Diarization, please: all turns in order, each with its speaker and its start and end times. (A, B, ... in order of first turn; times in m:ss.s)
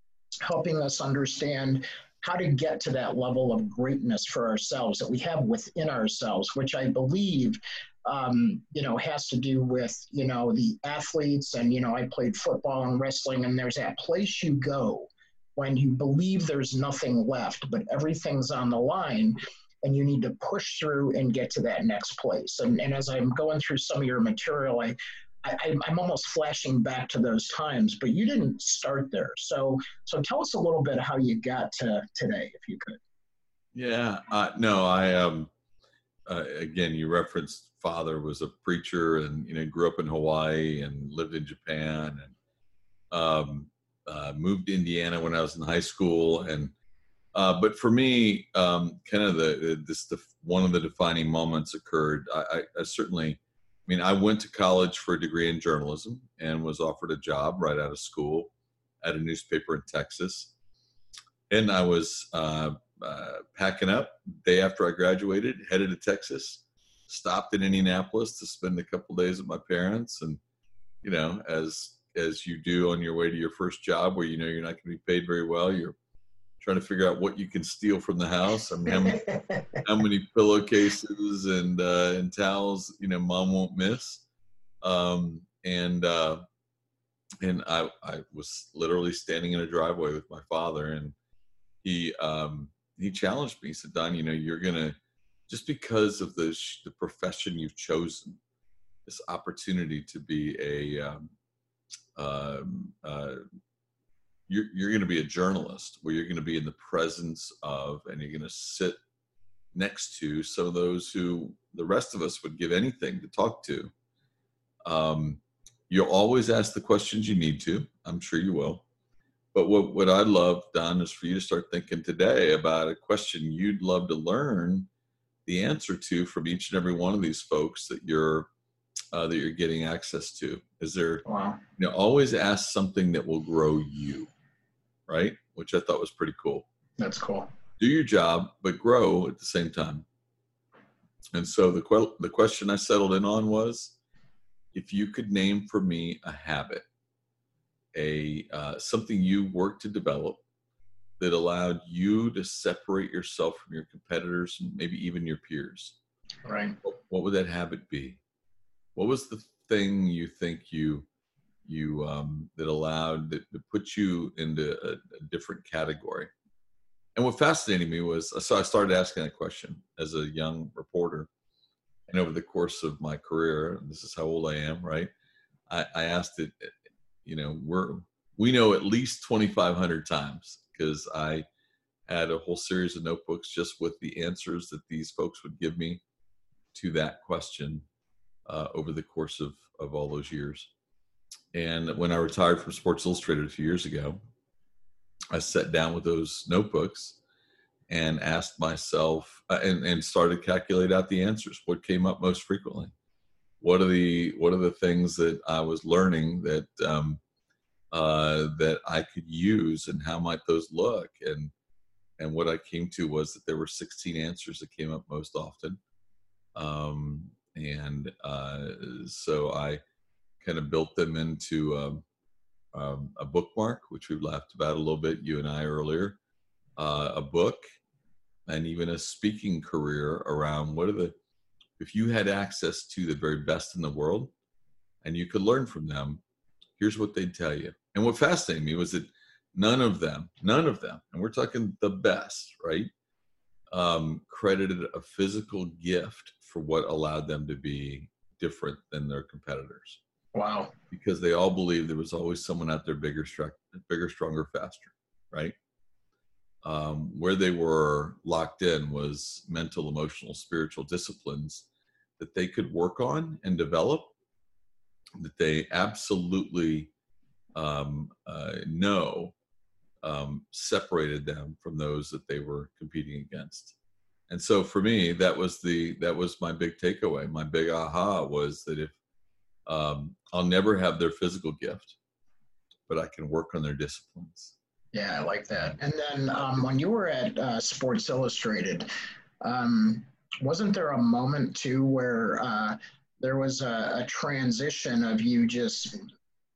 0:00.4-0:33.0 A
0:33.7-0:35.5 B
0:36.2-0:42.3 B
0:43.1-0:46.7 B
0:47.3-1:00.5 B
1:01.5-1:10.4 B
1:11.0-1:16.0 B
1:16.6-1:24.2 B
1:19.1-1:19.8 A
1:24.8-1:26.4 B
1:27.4-1:31.1 B
1:31.8-1:35.0 B
1:35.5-1:38.4 B
1:39.1-1:41.3 B
1:42.1-1:43.4 B
1:44.5-1:49.0 B
1:49.7-1:53.9 B
1:54.8-1:58.8 B
1:59.5-2:04.9 B
2:05.4-2:08.5 B
2:09.1-2:11.2 B
2:11.2-2:11.6 A
2:11.8-2:14.3 B
2:15.1-2:16.6 B
2:17.0-2:17.5 A
2:17.8-2:20.0 B
2:21.3-2:23.9 B
2:24.7-2:26.8 B
2:27.9-2:30.4 B
2:31.2-2:36.0 B
2:36.4-2:36.8 A
2:36.8-2:38.2 B
2:38.9-2:41.1 B
2:41.6-2:46.3 B
2:47.1-2:51.3 B
2:52.1-2:55.1 B
2:55.7-3:01.4 B
3:02.1-3:06.0 B
3:06.7-3:07.8 B
3:08.4-3:10.7 B
3:11.5-3:14.2 B
3:15.3-3:17.2 B
3:17.9-3:22.9 B
3:23.6-3:27.2 B
3:27.9-3:31.5 B
3:32.2-3:35.8 B
3:36.6-3:39.8 B
3:40.4-3:42.0 B
3:42.7-3:46.2 B
3:46.8-3:47.6 B
3:48.5-3:51.2 B
3:51.8-3:54.3 B
3:55.0-3:56.2 B
3:56.8-4:02.9 B
4:03.7-4:10.0 B
4:10.3-4:10.7 A
4:10.9-4:15.6 B
4:16.6-4:21.7 B
4:22.2-4:24.1 B
4:25.2-4:26.9 B
4:27.6-4:29.3 B
4:30.0-4:33.7 B
4:34.3-4:38.9 B
4:39.7-4:42.0 B
4:42.9-4:44.6 B
4:44.9-4:48.9 A
4:49.4-4:56.0 A